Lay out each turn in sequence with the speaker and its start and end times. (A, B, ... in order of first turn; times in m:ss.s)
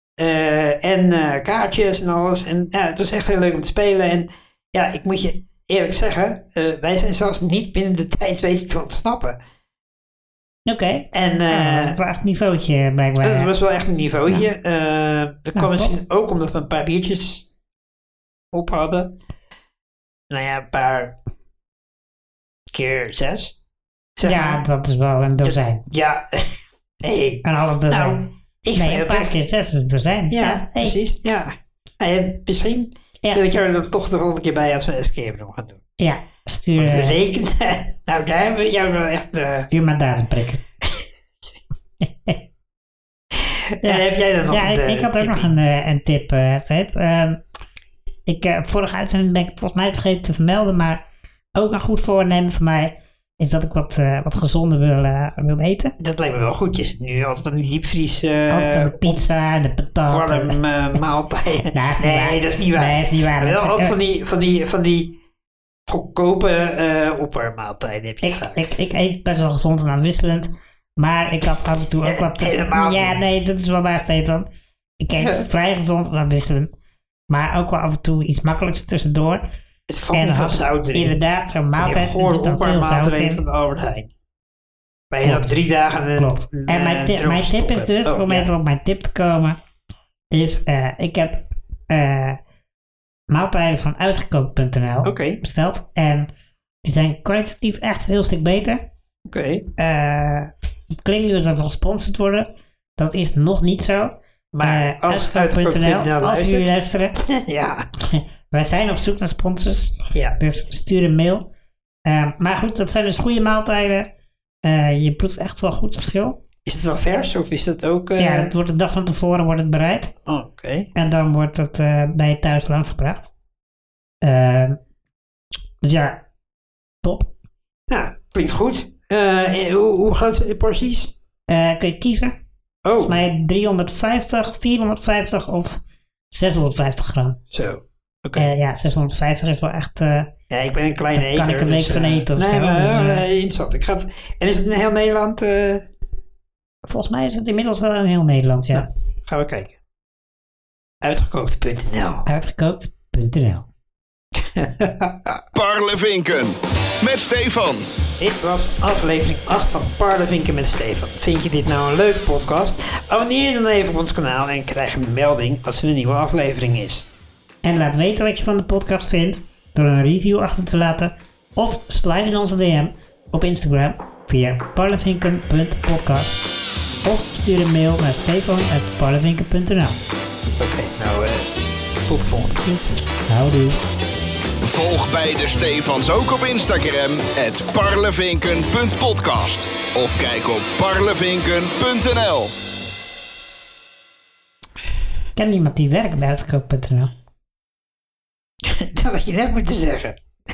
0:00.2-0:09.4 A
0:10.7-0:13.5 B
0:11.1-0:12.0 A
0:13.2-0:17.5 A
0:15.6-0:15.9 B
0:18.5-0:19.2 A
0:20.3-0:21.2 A
0:22.7-0:23.6 A
0:24.2-0:24.6 A
0:24.2-0:25.8 B
0:25.4-0:26.5 A
0:27.0-0:29.4 A
0:27.4-0:31.0 B
0:30.3-0:35.8 A
0:36.0-0:37.2 B
0:36.8-0:39.7 A
0:39.7-0:40.6 B
0:43.4-0:45.5 A
0:43.8-0:47.4 B
0:48.3-0:56.0 B
0:56.0-0:59.2 A
0:58.5-1:00.6 B
1:00.1-1:05.2 A
1:01.7-1:04.0 B
1:05.9-1:08.6 A
1:08.2-1:14.5 B
1:12.0-1:13.3 A
1:15.0-1:16.7 B
1:17.3-1:19.5 B
1:19.9-1:21.2 A
1:20.1-1:23.4 B
1:21.7-1:24.1 A
1:25.1-1:28.5 A
1:25.2-1:25.5 B
1:26.2-1:29.6 B
1:30.3-1:32.4 B
1:33.3-1:36.3 B
1:35.0-1:35.4 A
1:36.8-1:38.8 B
1:39.3-1:39.7 A
1:39.8-1:47.2 B
1:44.5-1:47.9 A
1:48.0-1:51.5 B
1:52.0-1:54.1 B
1:54.6-1:56.4 B
1:56.7-1:58.6 A
1:58.2-2:00.1 B
2:00.3-2:00.9 A
2:01.0-2:03.3 B
2:04.2-2:04.8 B
2:05.8-2:06.2 B
2:07.0-2:07.3 B
2:07.9-2:11.1 A
2:11.5-2:12.4 B
2:12.8-2:13.2 A
2:13.0-2:17.4 B
2:17.5-2:18.5 A
2:18.4-2:20.3 B
2:20.5-2:25.9 A
2:21.1-2:23.3 B
2:26.9-2:28.9 B
2:28.7-2:29.8 A
2:31.0-2:32.3 A
2:32.3-2:33.7 B
2:34.4-2:35.4 A
2:35.5-2:37.9 C
2:38.2-2:47.1 A
2:47.6-2:56.4 B
2:57.0-3:00.0 B
3:00.5-3:01.5 A
3:02.1-3:02.8 A
3:03.3-3:03.8 B
3:04.6-3:12.5 C
3:15.4-3:17.1 B
3:18.6-3:20.2 A